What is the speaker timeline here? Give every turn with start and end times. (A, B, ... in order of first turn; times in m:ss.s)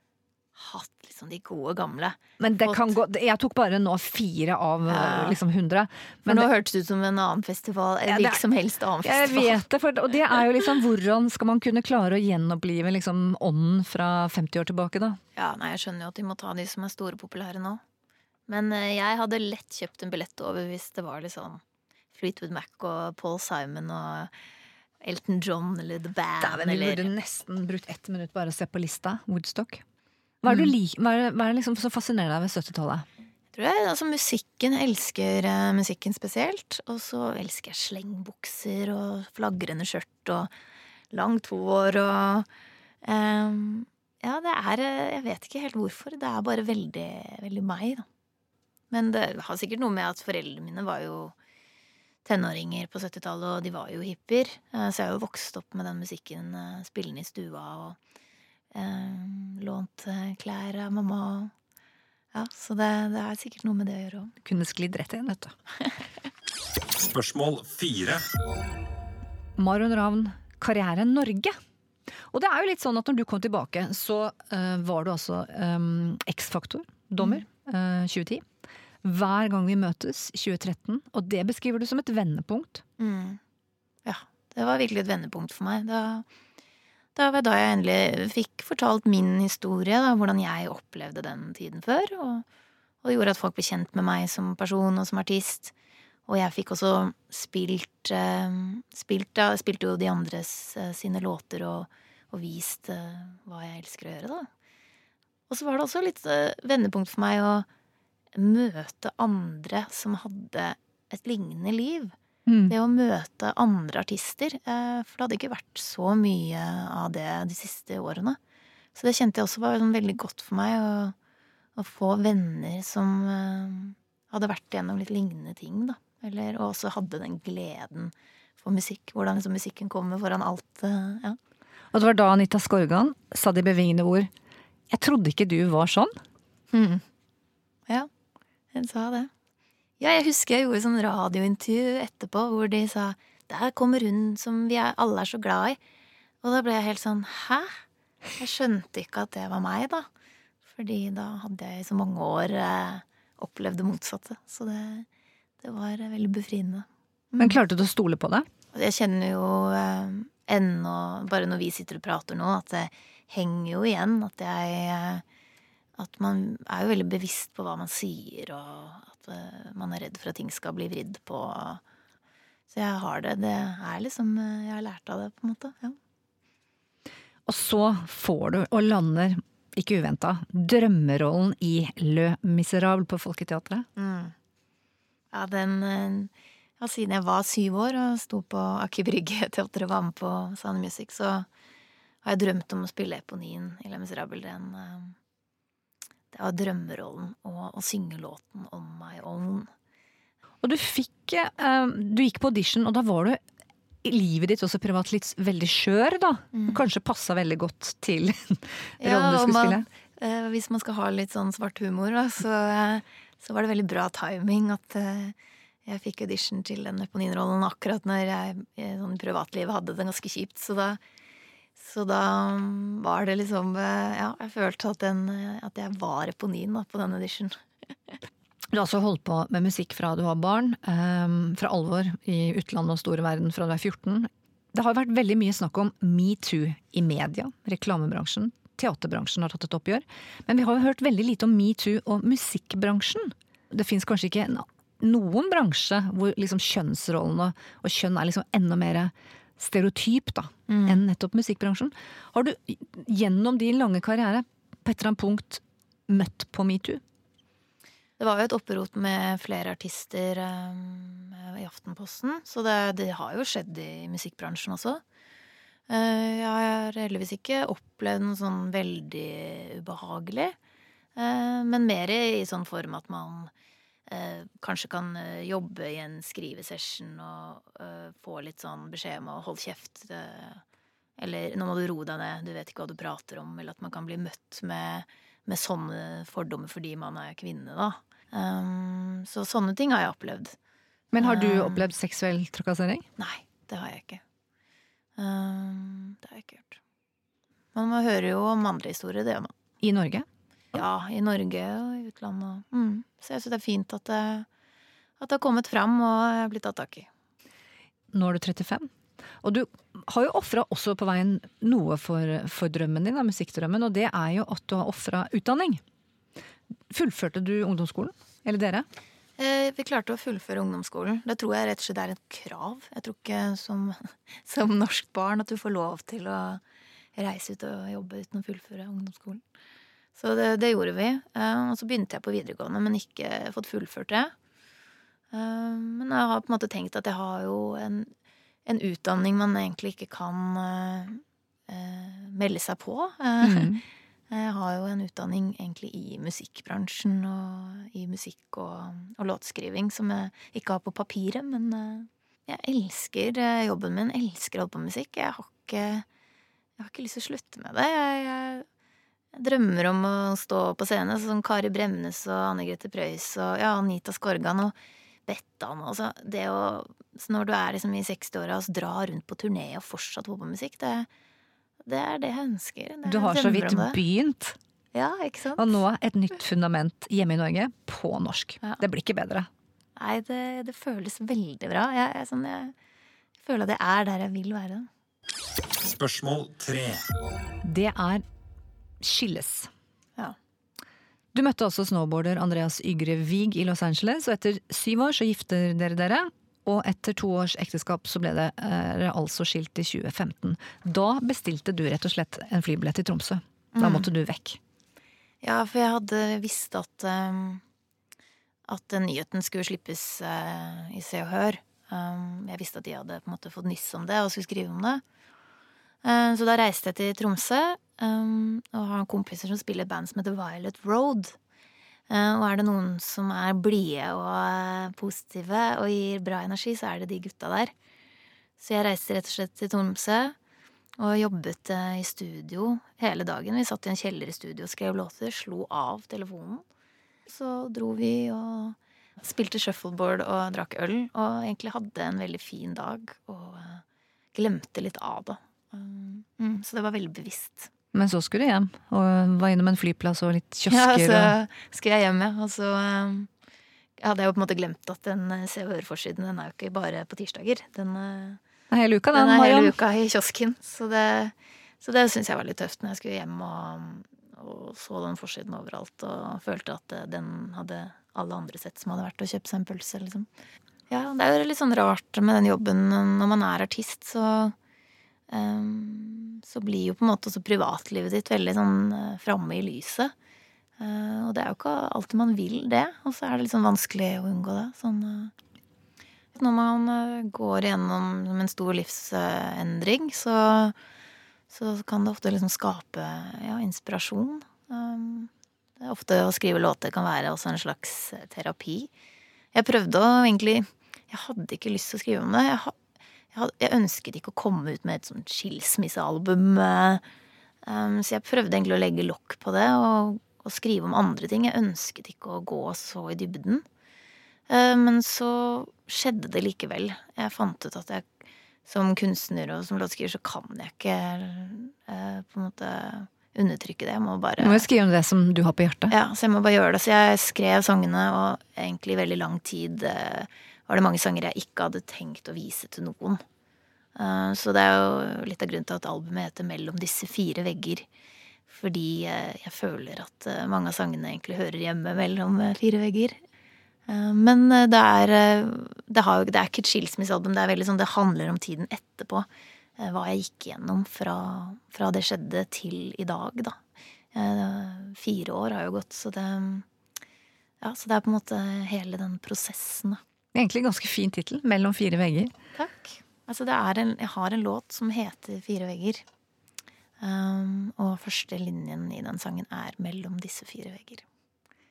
0:00.6-0:02.9 A
0:02.4-0:06.5 B
0:04.9-0:05.4 A
0:06.3-0:09.6 A
0:08.1-0:08.4 B
0:09.0-0:15.2 B
0:15.4-0:17.8 A
0:18.5-0:21.6 A
0:22.1-0:24.3 A
0:25.0-0:27.1 A
0:26.4-0:29.8 B
0:30.4-0:33.1 B
0:33.5-0:40.5 A
0:41.1-0:42.5 A
0:43.0-0:48.0 A
0:48.9-0:51.3 A
0:52.2-0:58.0 A
0:58.7-1:01.5 A
1:02.3-1:04.3 A
1:04.4-1:05.5 B
1:06.9-1:08.3 C
1:09.6-1:11.6 B
1:12.3-1:18.4 B
1:17.2-1:17.4 A
1:19.0-1:22.8 B
1:23.0-1:23.4 A
1:24.0-1:26.3 A
1:27.2-1:32.4 A
1:33.0-1:35.7 A
1:36.3-1:44.5 A
1:45.5-1:47.7 A
1:48.3-1:52.1 A
1:52.5-1:52.8 B
1:52.7-1:58.4 A
1:59.0-2:01.2 A
2:01.8-2:11.4 A
2:11.9-2:14.3 B
2:14.9-2:16.1 B
2:16.7-2:17.0 A
2:18.7-2:19.3 A
2:20.0-2:25.8 A
2:26.4-2:27.8 A
2:28.4-2:30.1 A
2:30.7-2:35.1 A
2:35.6-2:37.6 A
2:37.4-2:38.5 B
2:38.7-2:45.2 A
2:46.0-2:51.8 A
2:52.7-2:56.0 A
2:57.5-3:03.9 B
3:04.0-3:04.3 A
3:05.3-3:11.5 A
3:12.2-3:15.2 A
3:16.3-3:19.7 A
3:20.6-3:23.4 B
3:24.0-3:29.9 B
3:26.5-3:26.8 A
3:29.0-3:35.4 A
3:35.9-3:41.0 A
3:41.8-3:47.6 A
3:48.7-4:17.0 B
4:10.7-4:11.0 A
4:18.2-4:25.0 A
4:25.9-4:30.6 A
4:31.2-4:33.5 A
4:34.1-4:40.6 A
4:41.2-4:50.6 A
4:51.1-4:53.1 B
4:51.2-4:51.9 A
4:53.2-4:54.2 A
4:55.2-4:56.8 A
4:57.8-4:59.5 A
4:59.8-5:00.8 B
5:00.7-5:04.5 A
5:05.2-5:07.1 A
5:08.1-5:08.9 B
5:09.4-5:15.8 B
5:16.9-5:18.9 B
5:19.4-5:26.6 A
5:27.2-5:29.4 A
5:30.2-5:34.3 A
5:35.3-5:38.1 A
5:38.7-5:43.7 A
5:43.4-5:43.8 B
5:44.3-5:56.0 A
5:56.8-5:58.7 A
5:59.3-6:11.1 A
6:11.8-6:14.0 A
6:13.1-6:14.6 B
6:14.9-6:15.7 A
6:15.6-6:19.5 B
6:20.0-6:22.7 A
6:23.4-6:24.9 A
6:25.8-6:27.1 C
6:27.6-6:28.2 B
6:29.0-6:29.7 B
6:31.3-6:44.6 B
6:43.7-6:44.1 A
6:45.4-6:47.6 A
6:48.7-6:55.0 A
6:56.0-7:01.4 A
7:02.1-7:07.7 A
7:08.6-7:10.4 A
7:11.0-7:16.6 A
7:17.3-7:23.8 A
7:24.3-7:27.7 A
7:27.9-7:31.3 B
7:30.7-7:33.3 A
7:34.0-7:38.4 A
7:38.7-7:39.7 B
7:39.1-7:50.3 A
7:50.9-7:54.6 A
7:55.3-8:00.1 A
8:00.8-8:05.3 A
8:06.3-8:10.8 A
8:11.5-8:18.9 A
8:19.5-8:22.8 A
8:23.3-8:27.0 A
8:27.7-8:33.6 A
8:34.5-8:38.1 A
8:38.7-8:44.6 A
8:44.4-8:45.9 B
8:45.9-8:53.2 A
8:54.0-8:57.9 A
8:58.5-9:03.2 A
9:03.9-9:09.3 A
9:09.8-9:13.6 A
9:14.1-9:16.7 A
9:17.6-9:20.0 A
9:20.3-9:22.3 B
9:22.6-9:26.0 A
9:27.0-9:31.0 A